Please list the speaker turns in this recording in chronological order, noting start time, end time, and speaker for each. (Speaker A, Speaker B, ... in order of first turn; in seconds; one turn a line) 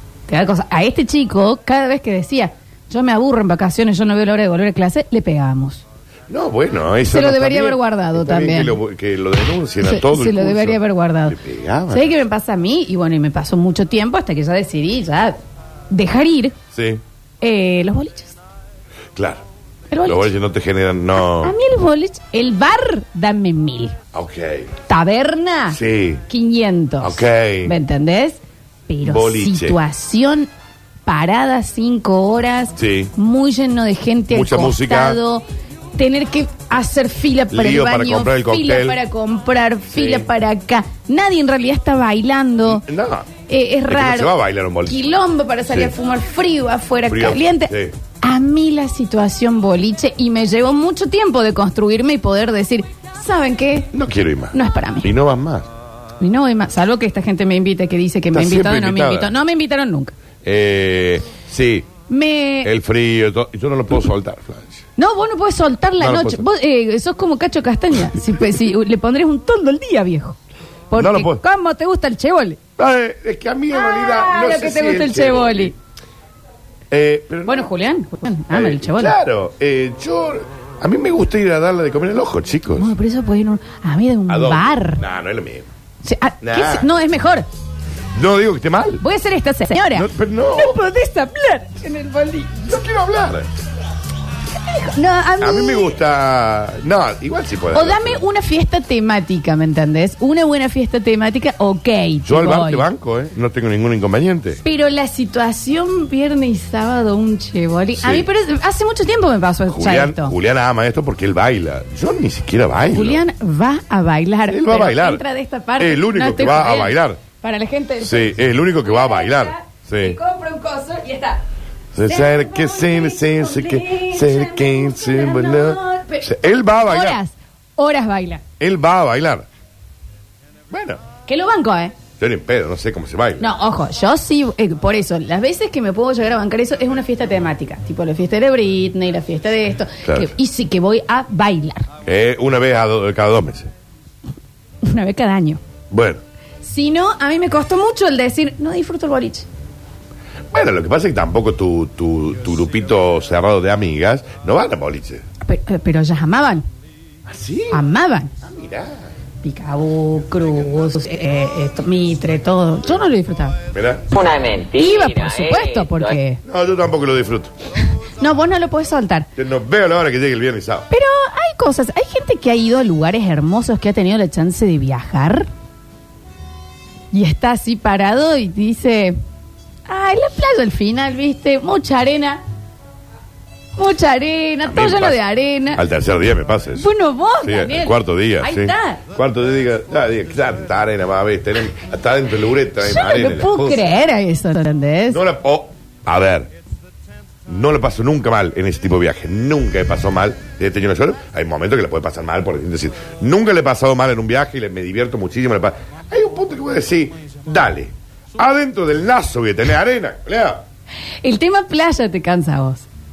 Speaker A: 0.3-5.8
Speaker B: 6.3-12.1
Speaker A: 7.1-8.8
Speaker A: 9.8-11.4
Speaker A: 11.9-15.4
Speaker A: 15.9-16.6
Speaker B: 16.7-17.0
Speaker A: 17.4-18.4
Speaker B: 19.1-19.4
Speaker A: 19.9-20.3
Speaker B: 20.1-21.6
Speaker A: 21.2-24.0
Speaker B: 24.1-24.7
Speaker A: 24.9-30.5
Speaker B: 25.7-26.2
Speaker B: 27.0-27.8
Speaker B: 29.0-29.8
Speaker A: 31.1-35.4
Speaker B: 32.8-33.1
Speaker B: 34.3-35.2
Speaker A: 36.0-42.8
Speaker B: 37.5-39.0
Speaker B: 39.9-40.3
Speaker B: 42.7-43.3
Speaker A: 43.5-44.4
Speaker B: 43.9-45.1
Speaker A: 44.9-53.9
Speaker B: 47.1-47.9
Speaker B: 53.9-55.7
Speaker A: 54.5-55.1
Speaker A: 56.2-60.1
Speaker B: 58.3-59.3
Speaker B: 60.4-61.9
Speaker A: 62.1-62.7
Speaker B: 62.6-64.8
Speaker A: 65.0-70.4
Speaker B: 66.0-66.5
Speaker A: 70.9-72.6
Speaker B: 71.0-71.4
Speaker B: 72.8-75.7
Speaker A: 73.7-75.7
Speaker B: 76.9-77.7
Speaker A: 77.5-79.2
Speaker B: 78.5-82.9
Speaker A: 82.8-85.0
Speaker B: 84.3-85.7
Speaker A: 86.0-87.5
Speaker B: 86.4-86.9
Speaker B: 88.2-89.0
Speaker A: 89.0-92.7
Speaker B: 89.9-90.8
Speaker B: 92.7-93.5
Speaker A: 94.7-96.0
Speaker B: 95.4-98.2
Speaker A: 97.7-102.8
Speaker B: 102.2-104.6
Speaker A: 104.6-110.3
Speaker B: 108.0-108.3
Speaker B: 109.7-113.2
Speaker A: 112.9-121.4
Speaker B: 114.5-115.2
Speaker B: 115.8-117.2
Speaker B: 118.0-120.2
Speaker B: 122.0-127.2
Speaker A: 122.1-128.4
Speaker B: 128.6-129.5
Speaker B: 130.7-131.0
Speaker A: 131.3-131.9
Speaker B: 132.2-133.5
Speaker A: 133.4-141.9
Speaker B: 142.1-143.7
Speaker A: 144.8-145.6
Speaker B: 145.9-146.2
Speaker A: 146.6-149.5
Speaker B: 150.5-155.2
Speaker A: 155.4-156.7
Speaker B: 157.3-157.8
Speaker A: 157.7-158.3
Speaker B: 158.4-159.1
Speaker A: 159.4-163.6
Speaker B: 163.7-164.1
Speaker C: 164.1-166.2
Speaker A: 164.8-166.4
Speaker B: 166.4-167.5
Speaker A: 168.2-169.3
Speaker B: 169.4-170.9
Speaker A: 170.9-175.5
Speaker A: 177.1-179.2
Speaker A: 179.9-182.4
Speaker A: 183.8-185.8
Speaker B: 184.7-185.2
Speaker B: 185.7-186.9
Speaker A: 186.8-189.0
Speaker B: 187.4-193.9
Speaker A: 192.8-195.2
Speaker B: 195.1-196.5
Speaker B: 197.5-210.6
Speaker A: 211.2-212.9